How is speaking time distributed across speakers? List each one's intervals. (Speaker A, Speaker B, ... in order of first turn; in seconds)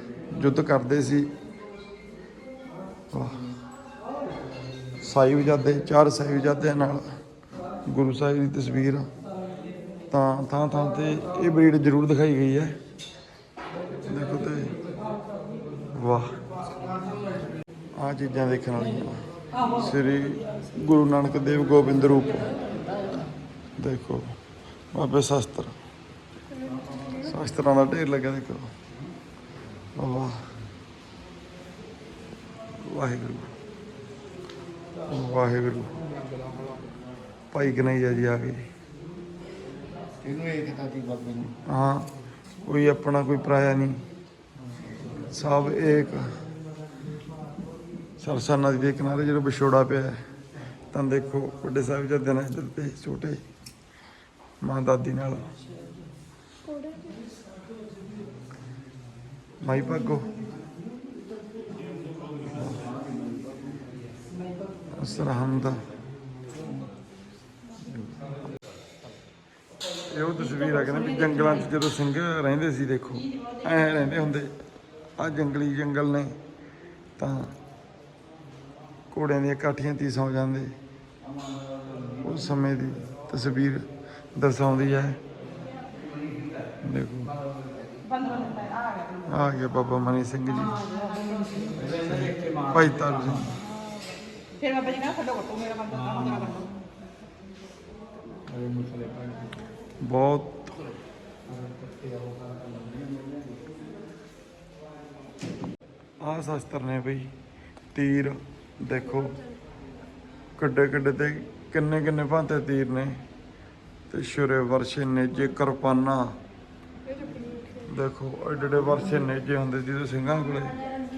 Speaker A: 0.3-1.3, 3.1-3.4, 5.0-7.1, 7.9-9.1, 10.1-12.7, 14.1-14.8, 15.9-16.4, 18.0-19.2, 19.7-22.4, 23.8-24.3, 24.9-25.8, 27.2-28.7, 29.9-30.4, 32.8-33.5, 35.1-35.9, 37.5-38.6, 41.5-42.1, 42.6-44.0, 45.3-46.3, 48.2-50.2, 50.9-53.4, 54.6-55.5, 59.6-60.3, 62.5-62.8, 65.0-65.8, 67.9-68.2, 70.1-74.5, 75.2-76.4, 77.2-77.5, 79.1-80.7, 82.2-85.2, 86.8-87.3, 89.3-90.8, 91.9-93.6, 100.0-100.8, 106.2-107.3, 107.9-109.3, 110.6-113.2, 114.1-116.3, 117.9-120.8
Speaker B: 40.3-41.4, 98.6-99.3
Speaker C: 56.7-57.2, 88.2-89.0, 94.6-96.7, 117.1-117.8